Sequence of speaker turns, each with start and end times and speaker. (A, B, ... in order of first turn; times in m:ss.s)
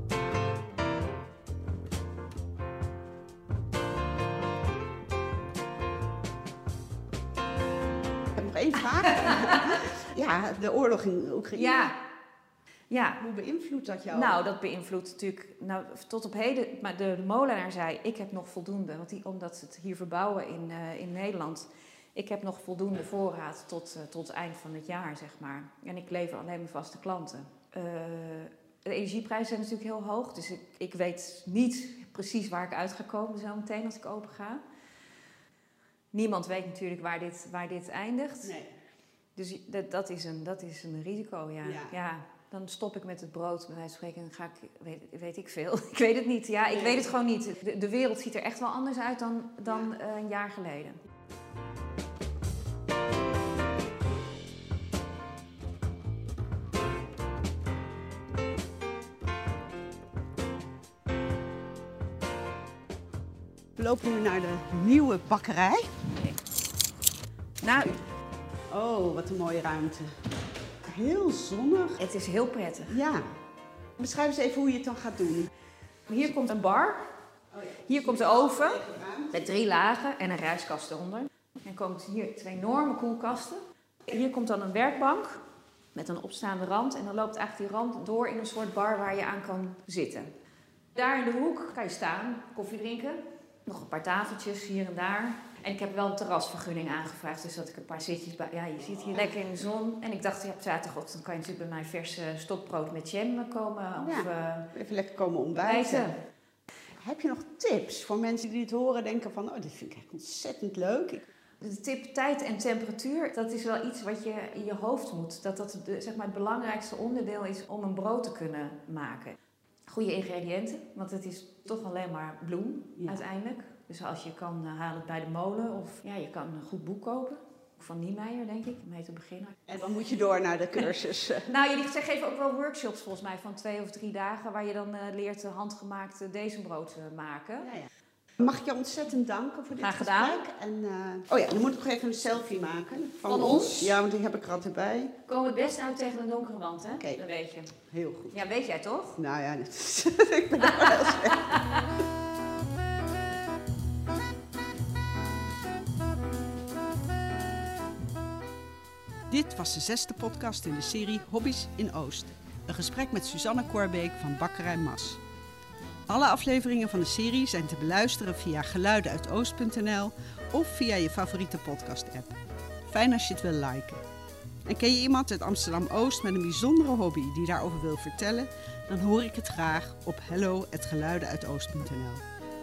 0:08.3-0:11.9 A
0:09.1-0:09.8 B
0:11.6-0:11.9 B
0:12.9-0:13.2 B
0:13.2-0:14.4 A
0:14.1-0:34.6 B
0:36.1-0:38.5 B
0:39.4-0:51.0 B
0:41.6-0:42.0 A
0:46.7-0:47.1 A
1:03.8-1:06.0 A
1:06.1-1:06.4 B
1:07.6-1:08.0 B
1:08.7-1:10.2 A
1:10.8-1:12.0 A
1:12.0-1:13.0 B
1:12.9-1:13.3 A
1:14.0-1:15.5 A
1:16.1-1:17.1 B
1:17.5-1:19.4 A
1:17.8-1:25.4 B
1:25.9-1:30.3 B
1:30.9-1:44.7 B
1:38.8-1:39.4 A
1:44.0-1:46.1 A
1:45.5-1:46.2 B
1:47.0-1:51.2 A
1:51.6-1:59.4 B
1:59.9-2:09.7 B
2:09.7-2:11.5 A
2:11.4-2:17.7 B
2:17.6-2:17.9 A
2:18.4-2:25.1 A
2:19.8-2:20.4 B
2:23.3-2:24.0 B
2:25.2-2:27.7 B
2:27.9-2:28.4 A
2:28.3-2:29.2 B
2:29.2-2:31.6 A
2:30.6-2:31.9 B
2:39.3-2:45.2 A
2:46.1-2:54.0 A
2:54.6-3:02.2 A